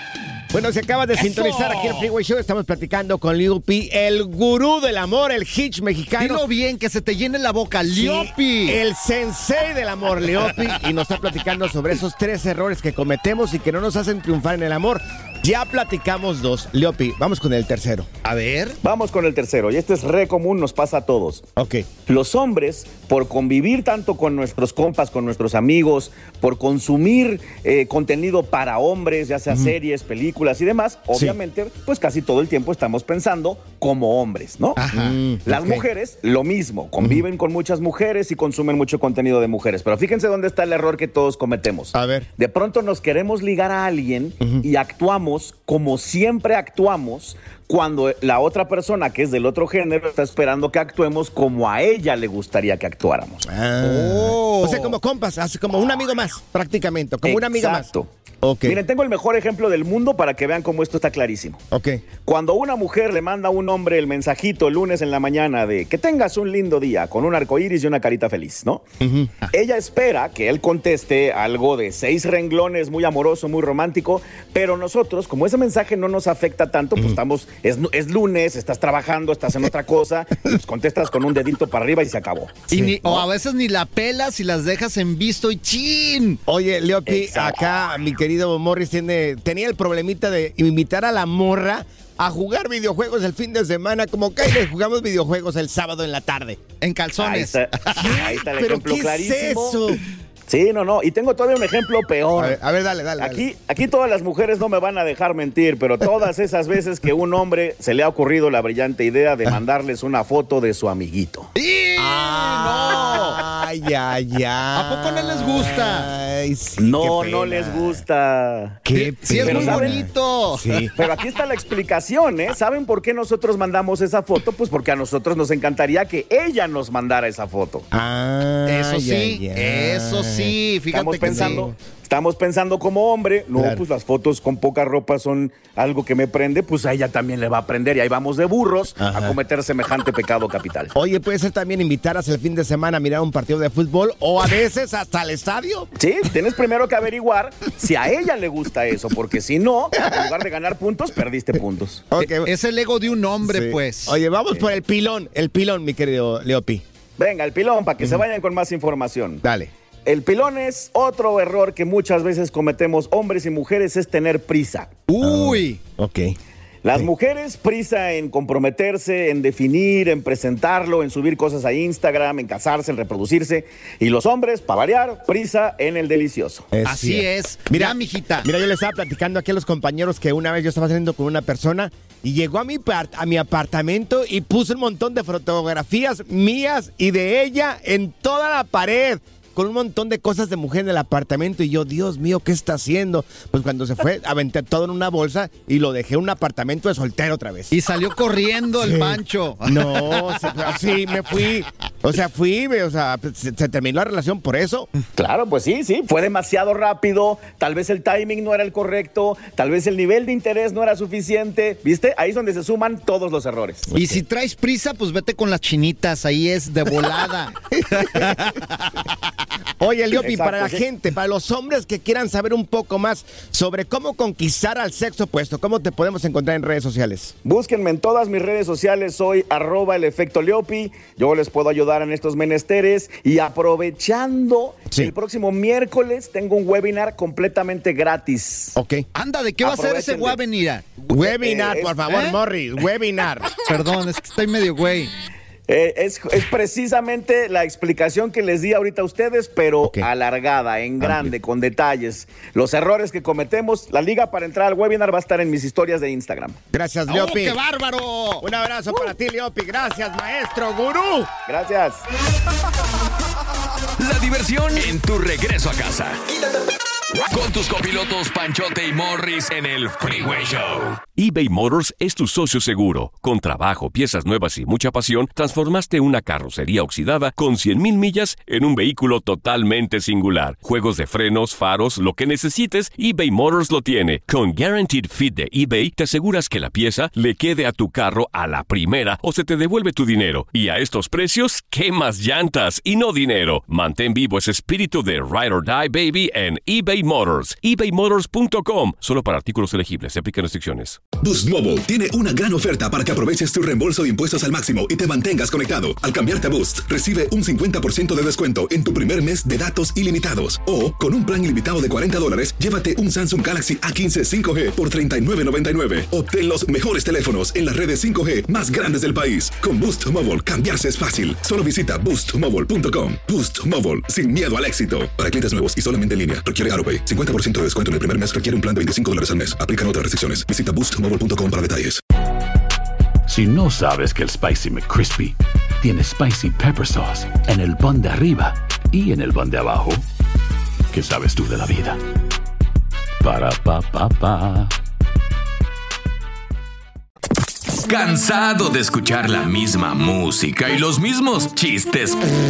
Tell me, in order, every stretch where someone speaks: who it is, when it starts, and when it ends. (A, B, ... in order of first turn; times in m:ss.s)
0:00.5-0:06.4 A
0:01.3-0:01.7 B
0:06.2-0:08.8 C
0:07.8-0:18.1 A
0:18.2-0:18.8 C
0:18.8-0:21.5 D
0:21.6-0:21.9 A
0:22.1-0:34.8 D
0:29.5-0:29.8 A
0:34.8-0:35.8 C
0:34.9-0:35.6 A
0:35.5-0:53.4 D
0:41.9-0:42.3 A
0:53.5-0:57.9 A
0:53.8-0:55.0 C
0:57.2-0:58.1 D
0:58.4-0:58.8 A
0:58.6-1:01.6 D
1:01.7-1:02.0 A
1:02.3-1:08.8 D
1:09.0-1:09.3 A
1:09.5-1:22.7 D
1:22.7-1:26.4 C
1:22.7-1:23.2 A
1:26.5-1:36.6 A
1:27.1-1:27.7 D
1:36.8-1:38.1 C
1:37.2-1:40.0 D
1:38.0-1:40.0 A
1:40.5-1:42.6 D
1:42.4-1:43.4 A
1:43.2-1:51.5 D
1:51.6-1:53.4 C
1:52.0-1:58.0 A
1:54.8-1:56.1 C
1:56.8-2:00.0 D
1:58.8-2:00.9 A
1:58.9-2:00.9 C
2:01.0-2:07.8 D
2:07.9-2:10.6 A
2:08.7-2:11.7 C
2:10.9-2:20.9 D
2:11.2-2:11.8 A
2:13.6-2:13.8 A
2:19.0-2:19.4 A
2:20.9-2:25.9 A
2:26.0-2:32.1 D
2:30.0-2:30.2 A
2:32.1-2:32.5 A
2:32.2-2:34.2 C
2:33.4-2:36.8 A
2:37.2-2:39.4 D
2:39.4-2:39.7 A
2:40.1-2:44.9 D
2:45.1-2:45.8 C
2:45.2-2:46.4 A
2:46.8-2:56.7 D
2:56.7-3:17.7 A
2:56.9-2:58.5 C
3:17.7-3:20.5 C
3:18.8-3:24.9 A
3:25.2-3:33.9 D
3:33.9-3:34.2 A
3:33.9-3:39.0 C
3:37.7-3:38.5 A
3:39.8-3:47.4 A
3:40.2-3:40.8 D
3:47.4-3:58.8 D
3:58.8-3:59.1 A
3:59.2-4:01.1 C
3:59.6-4:00.4 D
4:01.1-4:03.5 A
4:01.3-4:02.0 D
4:02.1-4:02.4 C
4:03.6-4:05.1 C
4:05.7-4:16.6 D
4:11.0-4:11.3 A
4:16.7-4:17.6 A
4:17.1-4:19.1 C
4:18.4-4:21.3 A
4:21.5-4:22.0 D
4:24.0-4:26.2 B
4:27.3-4:31.0 B
4:31.2-5:01.0 E
5:01.2-5:32.0 F
5:33.3-5:40.0 G
5:40.9-5:42.0 G
5:43.2-5:44.7 G
5:47.7-5:52.3 B